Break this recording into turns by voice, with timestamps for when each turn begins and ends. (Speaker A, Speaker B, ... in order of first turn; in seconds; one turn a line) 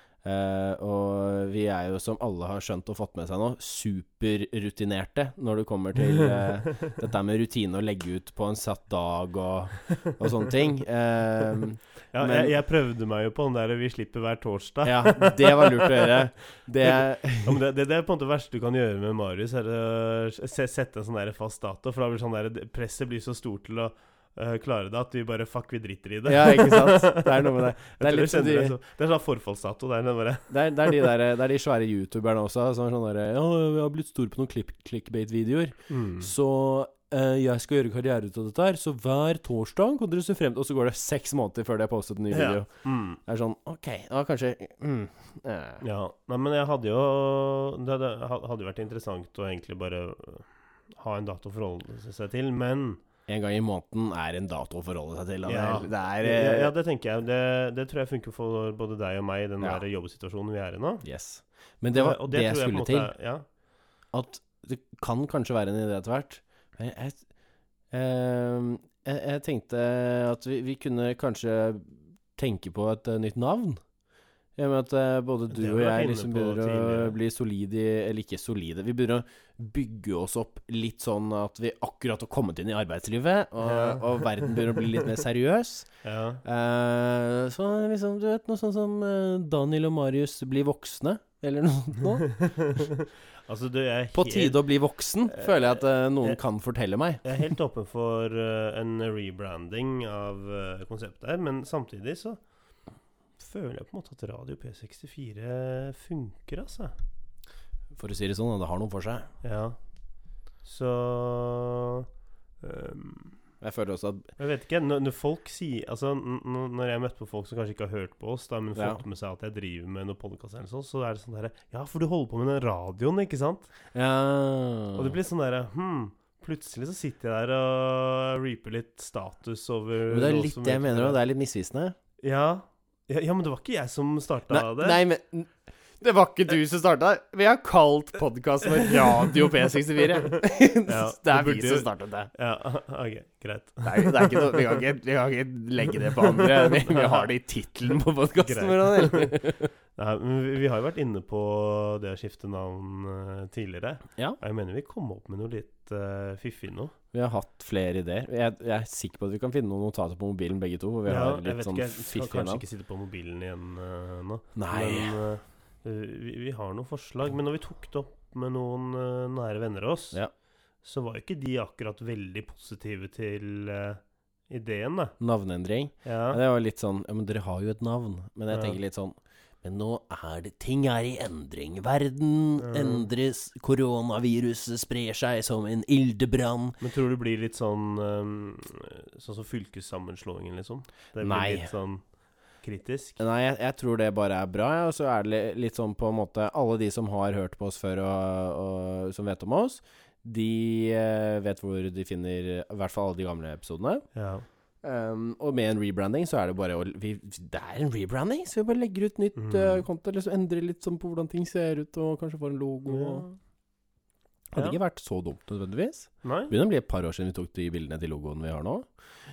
Speaker A: 0.2-12.5
Speaker B: 6.2-7.0
Speaker B: 12.1-16.2
Speaker A: 14.8-17.6
Speaker B: 16.8-31.1
Speaker A: 26.2-28.7
Speaker A: 30.5-45.8
Speaker B: 35.9-36.3
Speaker B: 42.3-43.2
Speaker B: 45.8-53.0
Speaker A: 53.3-56.7
Speaker B: 55.4-61.0
Speaker A: 61.0-63.1
Speaker B: 61.9-63.4
Speaker A: 64.1-67.2
Speaker A: 67.9-73.8
Speaker A: 74.5-85.9
Speaker B: 75.5-77.1
Speaker B: 83.6-85.0
Speaker B: 86.0-86.4
Speaker A: 86.4-92.3
Speaker B: 92.2-94.6
Speaker A: 94.1-97.2
Speaker B: 95.3-96.4
Speaker B: 97.2-102.4
Speaker B: 103.4-106.9
Speaker A: 107.9-109.3
Speaker B: 109.4-109.8
Speaker B: 110.6-112.1
Speaker B: 112.6-113.4
Speaker A: 113.6-114.3
Speaker B: 114.4-123.7
Speaker A: 118.8-119.0
Speaker A: 123.9-125.2
Speaker B: 124.9-131.2
Speaker A: 130.1-131.9
Speaker B: 132.2-135.0
Speaker A: 134.5-142.3
Speaker B: 140.3-144.8
Speaker A: 143.8-149.7
Speaker B: 145.9-147.3
Speaker B: 148.4-156.9
Speaker A: 157.1-162.6
Speaker B: 161.1-170.2
Speaker A: 164.6-165.2
Speaker B: 170.8-175.1
Speaker A: 175.2-186.8
Speaker B: 176.0-176.4
Speaker B: 178.5-178.8
Speaker B: 182.6-183.1
Speaker B: 186.8-192.0
Speaker A: 191.2-191.7
Speaker B: 192.6-193.2
Speaker A: 193.2-204.0
Speaker B: 204.1-204.4
Speaker A: 204.8-213.3
Speaker B: 209.3-209.8
Speaker B: 212.8-213.2
Speaker A: 214.5-218.9
Speaker B: 216.2-216.5